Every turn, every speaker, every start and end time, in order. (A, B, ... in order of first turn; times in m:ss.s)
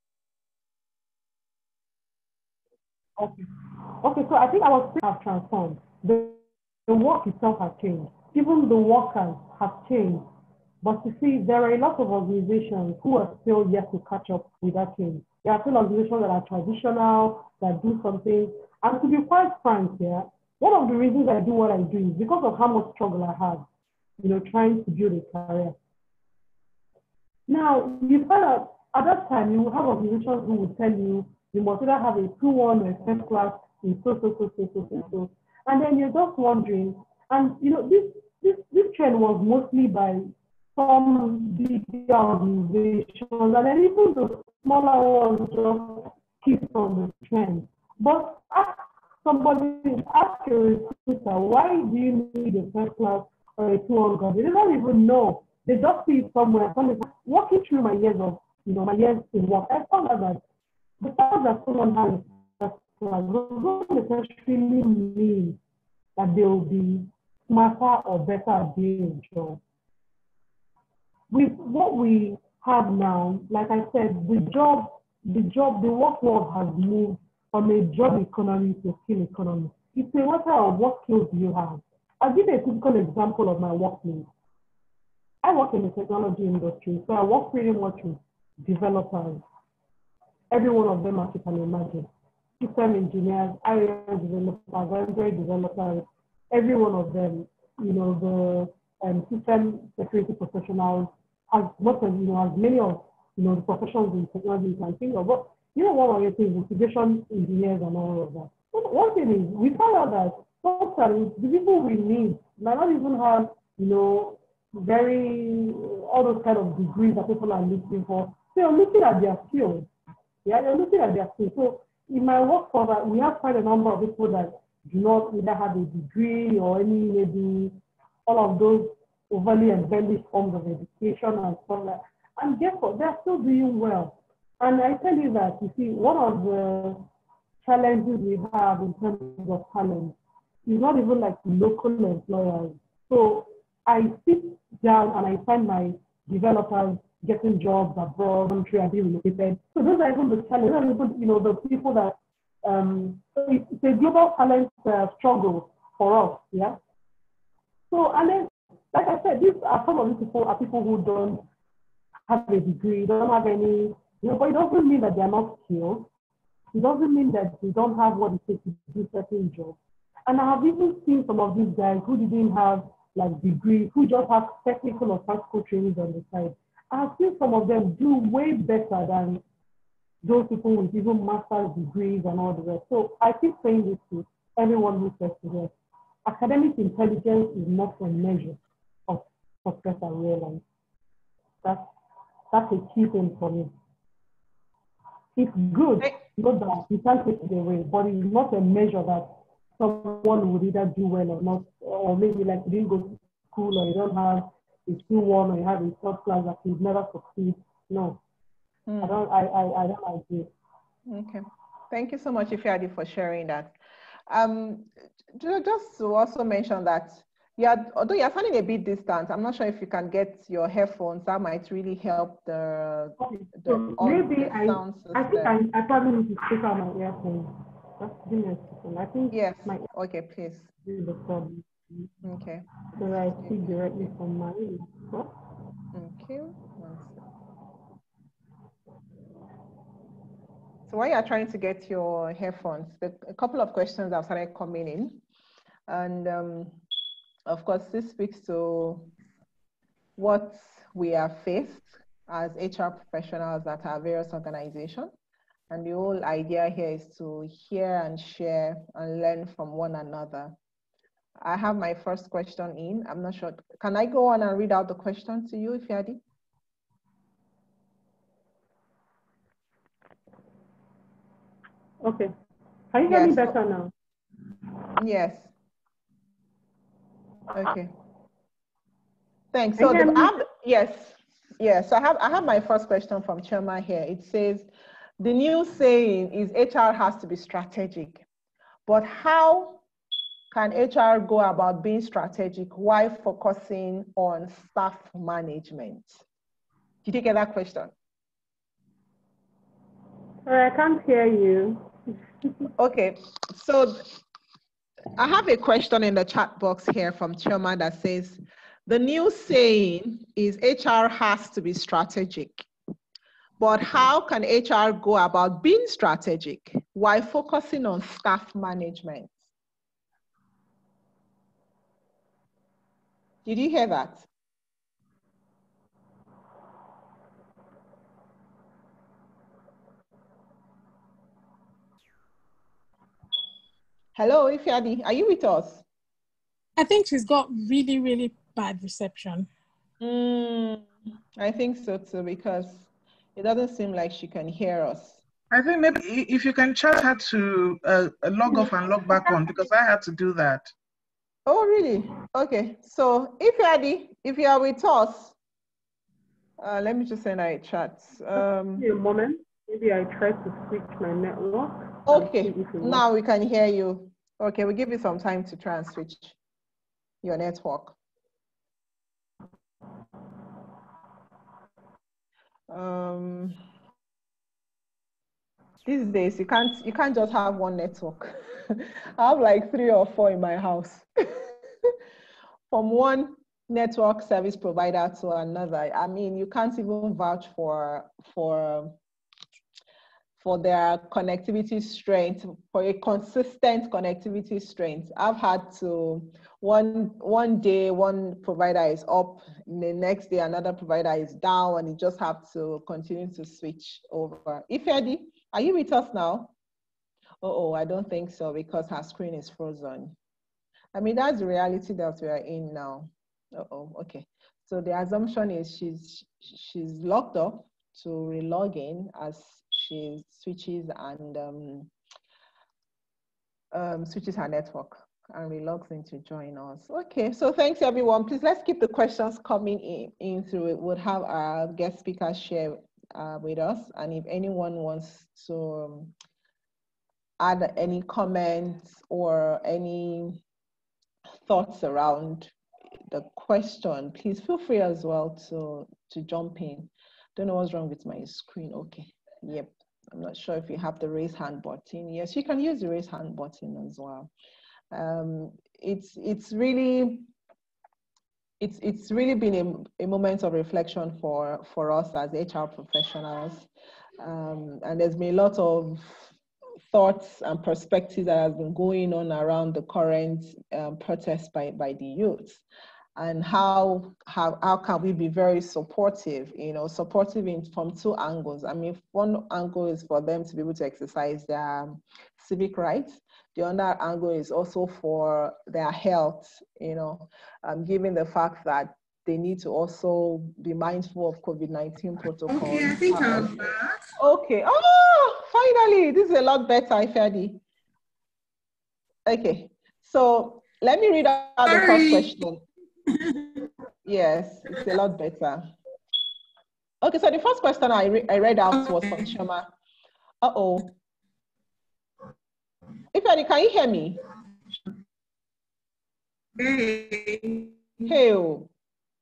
0:03.2-0:03.4 A
0:04.0-0:10.3 A
0:10.8-0:23.6 A
0:24.2-0:25.8 A
0:27.5-1:00.4 A
1:01.0-1:05.6 A
1:06.2-1:09.6 A
1:11.3-1:24.3 A
1:25.4-1:29.4 A
1:30.5-1:32.1 A
1:32.6-1:59.9 A
2:00.4-2:17.0 A
2:17.6-2:36.8 A
2:37.9-2:41.4 A
2:42.3-2:46.1 A
2:46.7-2:59.4 A
3:00.2-3:05.7 A
3:06.2-3:10.6 A
3:12.5-3:13.7 A
3:15.4-3:28.2 A
3:28.9-3:29.2 B
3:29.0-3:30.5 A
3:31.1-3:33.7 B
3:34.3-3:45.6 B
3:43.2-3:49.8 A
3:49.3-3:50.7 B
3:50.8-3:52.1 A
3:52.2-3:54.1 B
3:53.0-3:55.3 A
3:55.9-3:57.2 B
4:00.9-4:05.2 B
4:05.9-4:06.8 B
4:07.5-4:09.1 B
4:10.2-4:15.1 B
4:15.7-4:20.6 B
4:21.4-4:26.2 B
4:32.0-4:32.3 A
4:32.9-4:33.9 A
4:33.1-4:33.6 B
4:35.0-4:35.5 B
4:37.5-4:37.9 B
4:39.5-4:44.7 B
4:39.8-4:40.3 A
4:45.2-4:48.2 B
4:48.9-4:49.8 B
4:50.5-4:56.2 B
4:57.0-4:57.9 B
5:00.4-5:01.8 A
5:02.8-5:04.1 B
5:05.2-5:12.7 B
5:13.6-5:19.4 B
5:23.4-5:24.3 B
5:34.2-5:35.8 B
5:36.8-5:39.5 C
5:40.0-5:45.2 B
5:45.5-5:50.7 D
5:48.5-5:49.6 C
5:51.4-5:55.4 B
5:56.6-5:58.9 B
5:58.3-6:03.0 A
6:02.0-6:06.4 B
6:07.2-6:07.9 B
6:12.7-6:13.6 B
6:15.8-6:21.4 B
6:22.7-6:28.9 B
6:30.4-6:46.5 B
6:47.4-6:50.1 B
6:50.9-7:01.9 B
7:03.7-7:16.1 B
7:17.4-7:20.4 B
7:21.4-7:22.5 B
7:23.1-7:34.3 B
7:34.9-7:37.3 B
7:38.6-7:43.7 B
7:44.2-7:46.3 B
7:46.9-7:52.6 B
7:53.2-8:13.7 B
8:12.5-8:14.0 E
8:14.2-8:17.6 B
8:19.2-8:22.6 B
8:21.6-8:22.3 E
8:23.1-8:23.7 E
8:24.0-8:25.7 B
8:27.0-8:29.7 B
8:28.7-8:29.3 E
8:30.4-8:30.9 B
8:33.1-8:34.2 B
8:36.6-8:37.8 E
8:38.1-8:38.7 B